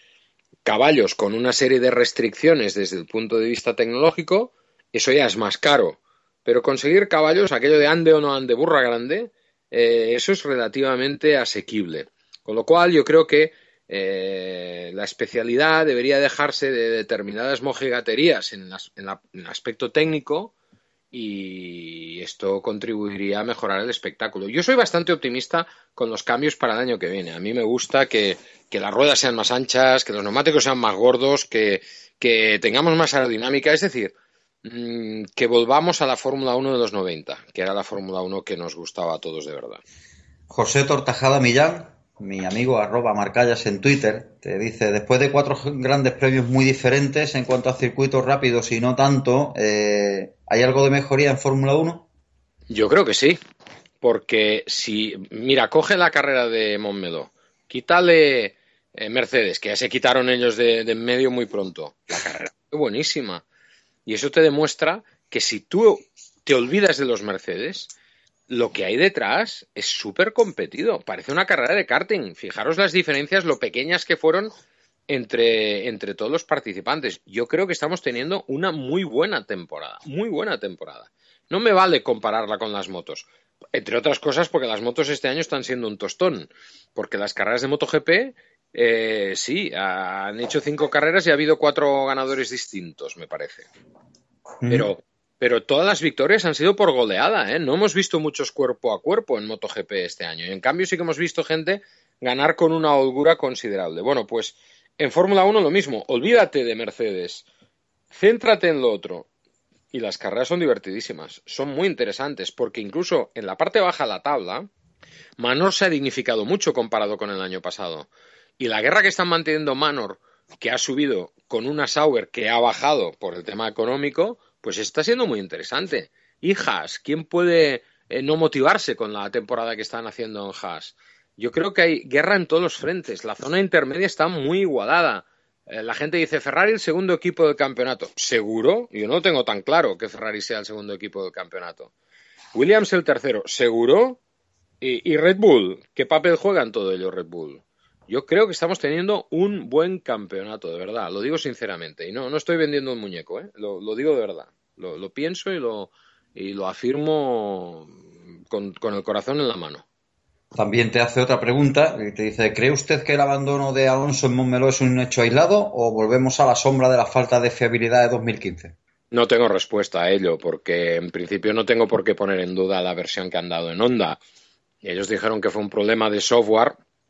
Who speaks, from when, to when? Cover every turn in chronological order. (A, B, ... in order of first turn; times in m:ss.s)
0:00.6-0:20.5 A
0:21.1-0:39.8 A
0:40.5-0:52.1 B
0:52.7-0:53.4 A
0:54.0-1:03.4 A
1:04.1-1:07.9 A
1:08.5-1:14.5 A
1:15.1-1:33.7 A
1:34.6-1:34.9 B
1:34.7-1:47.5 A
1:48.1-1:49.3 A
1:49.9-1:54.7 A
1:55.4-1:58.1 A
1:58.6-2:21.9 A
2:22.5-2:24.2 A
2:24.8-2:38.0 A
2:38.5-2:39.8 A
2:40.5-2:48.8 B
2:49.1-2:54.2 A
2:54.8-2:56.8 A